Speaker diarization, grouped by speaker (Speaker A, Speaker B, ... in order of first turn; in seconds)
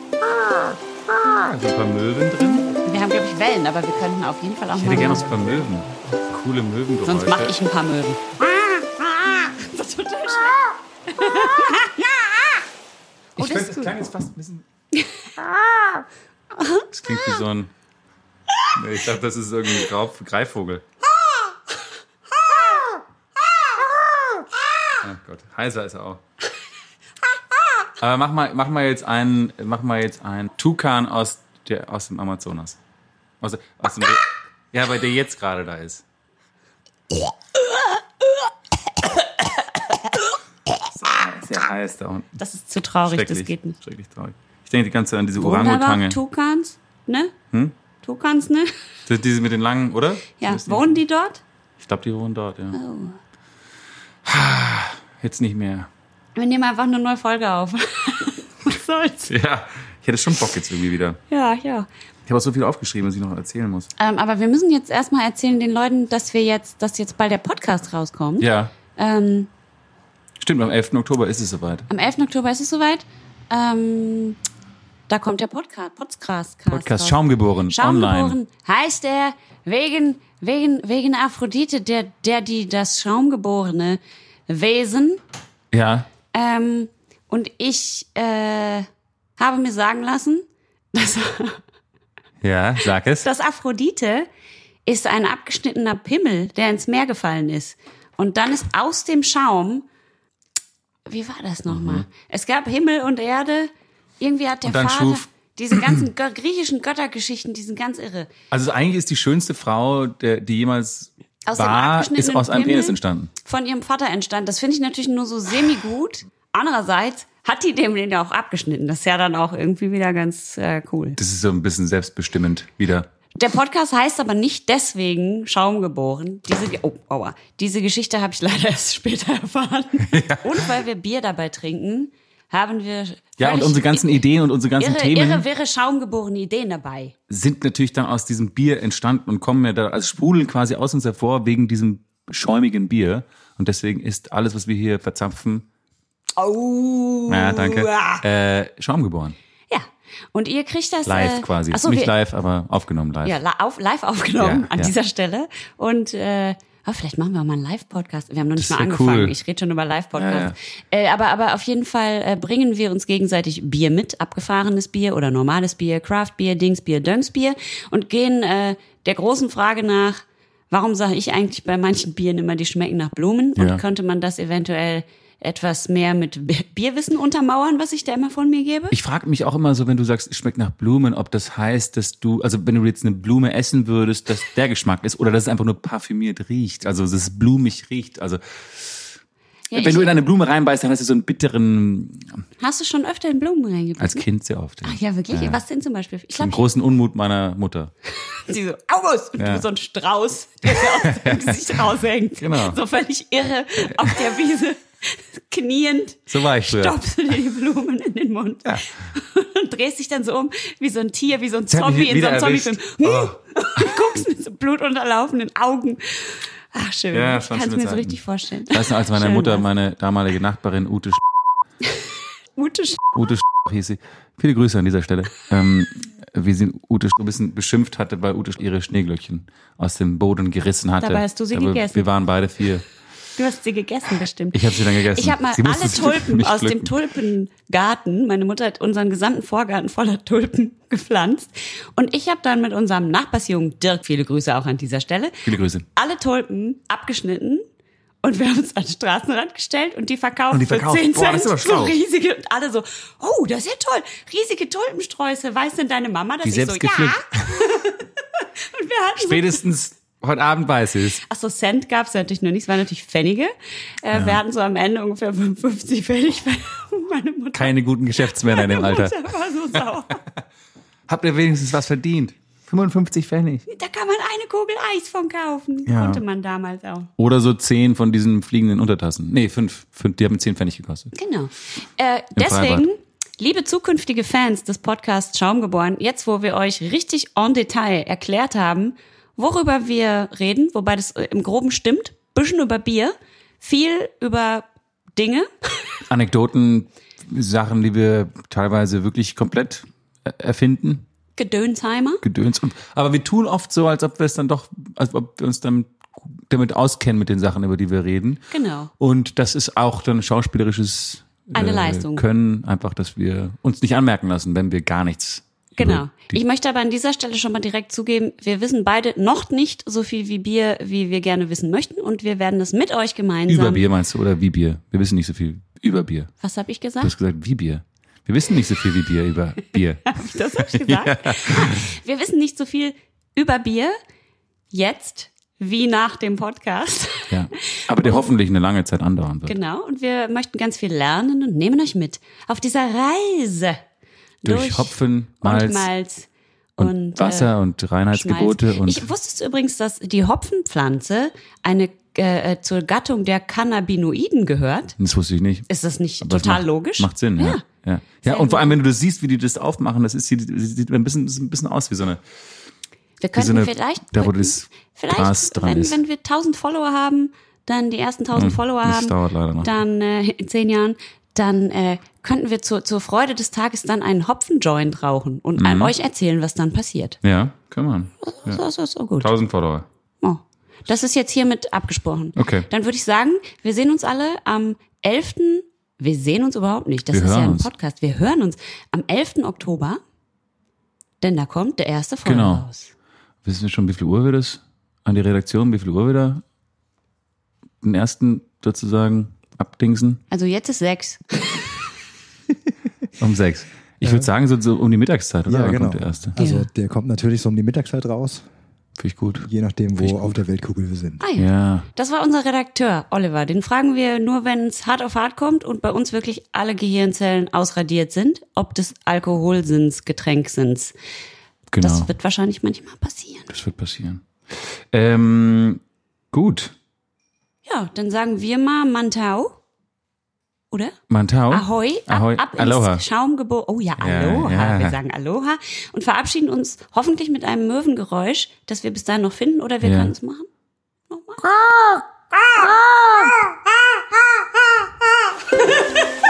Speaker A: 0.2-2.8, 4.7-7.6, 13.4-14.6, 16.9-17.7, 18.7-20.8, 25.0-26.2, 28.0-32.8, 33.4-36.0, 40.9-42.4, 43.0-46.2, 47.5-47.8, 49.1-51.0, 51.8-52.8, 54.2-55.9, 59.3-61.2, 62.2-63.9, 68.4-68.8, 70.4-71.9, 76.7-78.4, 85.7-86.2, 92.4-93.3, 101.7-102.1, 104.6-106.0, 108.5-113.3, 121.2-123.1, 130.0-130.8, 133.3-135.5, 137.3-145.7, 147.3-149.3, 151.0-153.4, 154.4-154.9, 158.6-159.3, 160.1-160.6, 173.6-173.8, 178.9-188.9, 189.7-192.3, 194.0-195.6, 196.4-197.9, 199.4-199.7, 200.7-202.8, 203.9-204.3, 206.3-207.3, 211.7-214.0, 217.1-221.2, 223.1-232.8, 234.5-237.0, 245.4-245.8, 250.5-252.0, 256.4-257.6, 259.2-261.2, 264.1-264.4, 267.5-270.3, 271.1-273.6, 275.8-276.2, 277.2-281.1, 282.4-282.9, 296.1-301.0, 302.2-316.4, 323.5-326.3, 327.0-331.9, 337.3-339.6, 344.4-345.9, 346.8-349.1, 355.0-355.7, 356.2-362.2, 363.3-366.0, 368.3-369.7, 375.6-375.9, 377.2-378.6, 379.2-379.9, 382.4-382.7, 387.0-387.7, 392.2-392.7, 393.4-396.4, 397.8-400.2, 403.2-406.4, 409.0-410.4, 411.3-411.9, 421.7-422.1, 423.5-424.2, 424.9-425.8, 426.3-426.7, 431.1-433.0, 434.0-435.0, 439.8-440.1, 441.4-442.0
Speaker B: 2.8-5.2, 7.0-12.6, 13.4-13.9, 14.9-15.6, 16.5-17.3, 22.4-22.9, 42.4-43.7, 45.4-47.4, 48.0-48.7, 50.4-51.4, 52.7-53.2, 56.4-59.3, 61.3-61.9, 64.0-69.5, 71.9-74.4, 75.1-77.2, 77.7-85.2, 86.2-88.9, 89.4-91.6, 93.2-94.3, 94.8-99.8, 101.1-108.3, 111.5-121.2, 123.4-134.1, 134.8-137.1, 146.4-148.2, 149.7-152.1, 153.2-170.2, 170.7-178.9, 189.7-190.0, 192.6-194.2, 194.8-196.6, 198.1-219.6, 221.8-223.1, 231.1-232.0, 233.4-234.5, 235.2-245.3, 245.9-247.6, 248.2-259.3, 261.2-263.5, 264.0-267.7, 268.4-270.1, 273.7-277.1, 281.1-295.5, 301.4-302.2, 308.5-308.9, 311.6-312.2, 315.8-323.8, 326.4-327.1, 330.1-333.9, 334.7-337.8, 339.4-343.8, 344.5-344.8, 345.4-346.3, 346.8-347.4, 348.1-354.9, 355.7-357.6, 358.3-358.7, 363.2-377.2, 378.2-379.2, 380.2-390.0, 391.2-392.9, 400.3-401.9, 406.4-406.7, 411.2-420.9, 421.8-423.5, 427.6-429.6, 431.5-440.5, 441.1-441.4, 442.3-444.0, 445.4-446.1
Speaker C: 405.5-408.4, 409.4-411.2